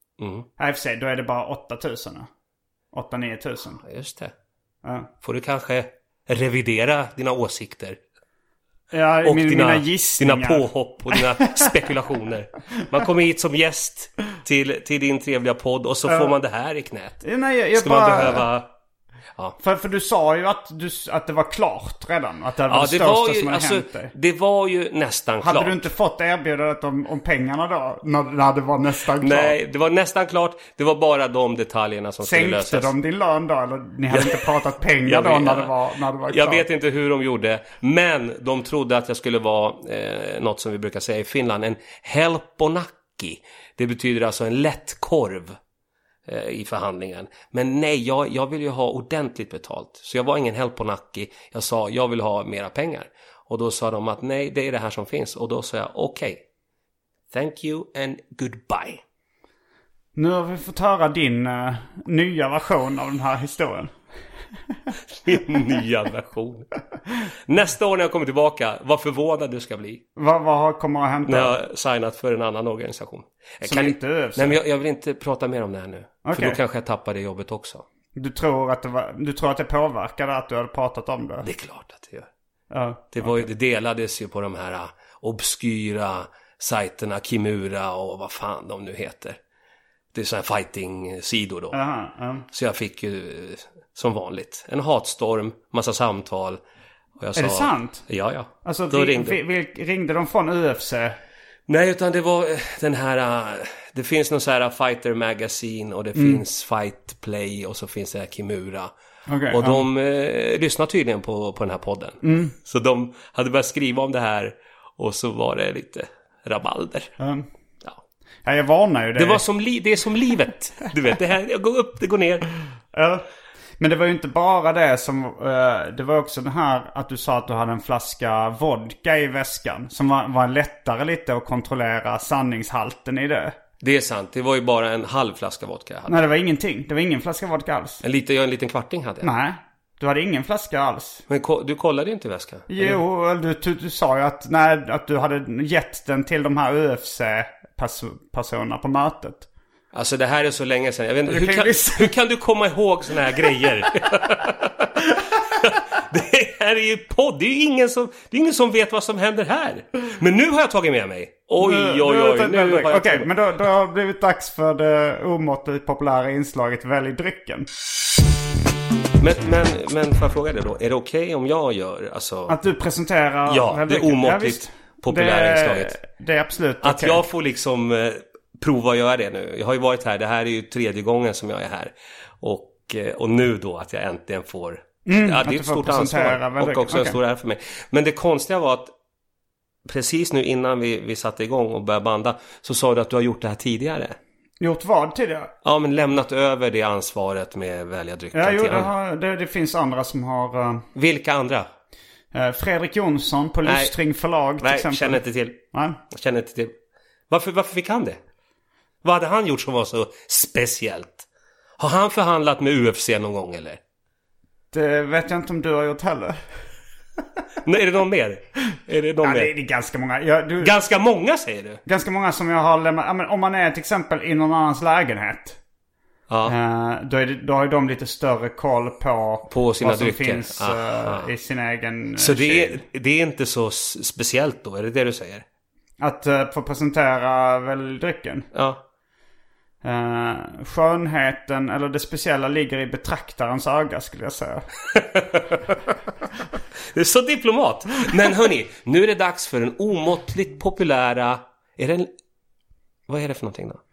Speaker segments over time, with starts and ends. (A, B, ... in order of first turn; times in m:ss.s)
0:00.2-0:00.5 A
0:00.6-0:02.3 B
0:02.9-0:03.8 B
0:03.8-0:04.3 A
0:04.8-0:05.1 B
0:05.2-0:08.0 A
0:08.9-0:11.7 B
0:09.2-0:17.2 A
0:16.1-0:16.3 B
0:17.2-0:18.5 B
0:17.8-0:18.7 A
0:19.6-0:24.1 B
0:22.7-0:25.9 A
0:25.4-0:29.6 B
0:29.2-0:32.9 A
0:32.2-0:36.6 B
0:34.1-0:35.8 A
0:36.3-0:45.6 A
0:46.3-0:56.4 A
0:57.3-0:59.0 A
1:00.2-1:04.0 B
1:05.2-1:06.7 A
1:07.5-1:10.0 A
1:10.2-1:11.6 B
1:11.3-1:17.8 A
1:13.6-1:14.6 B
1:16.2-1:16.6 B
1:18.2-1:21.5 B
1:21.4-1:22.3 A
1:22.7-1:23.5 B
1:23.1-1:29.4 A
1:30.1-1:31.8 A
1:31.7-1:32.5 B
1:32.5-1:36.6 A
1:37.2-1:39.4 A
1:37.4-1:38.0 B
1:38.6-1:41.2 B
1:41.7-1:48.9 A
1:46.2-1:46.4 B
1:49.3-1:49.9 B
1:49.5-1:57.1 A
1:52.2-1:52.5 B
1:57.2-1:57.5 B
1:58.5-1:59.4 B
1:59.2-2:02.5 A
2:02.9-2:03.2 B
2:03.8-2:13.6 B
2:13.8-2:16.2 A
2:16.1-2:18.0 B
2:18.0-2:19.3 A
2:19.2-2:21.2 B
2:21.3-2:23.0 A
2:22.7-2:29.5 B
2:29.9-2:43.4 A
2:31.3-2:32.1 B
2:41.6-2:47.7 B
2:49.2-2:52.6 A
2:52.5-2:57.2 B
2:53.5-2:56.0 A
2:56.8-3:08.9 A
3:05.1-3:07.2 B
3:09.9-3:14.2 A
3:14.6-3:15.5 B
3:15.6-3:18.9 A
3:18.3-3:20.8 B
3:21.0-3:21.7 A
3:22.3-3:26.0 B
3:23.6-3:23.9 A
3:24.6-3:26.7 A
3:27.3-3:28.2 A
3:29.0-3:31.2 A
3:31.8-3:33.8 A
3:34.7-3:36.4 B
3:37.6-3:39.5 A
3:39.2-3:40.7 B
3:40.6-3:41.8 A
3:41.9-3:45.6 B
3:46.3-3:46.6 A
3:46.5-3:52.8 B
3:49.5-3:51.3 A
3:52.2-3:55.4 A
3:56.0-3:58.5 B
3:58.5-3:58.8 A
3:59.8-4:04.7 B
4:04.9-4:05.8 A
4:06.9-4:12.1 A
4:13.1-4:13.8 A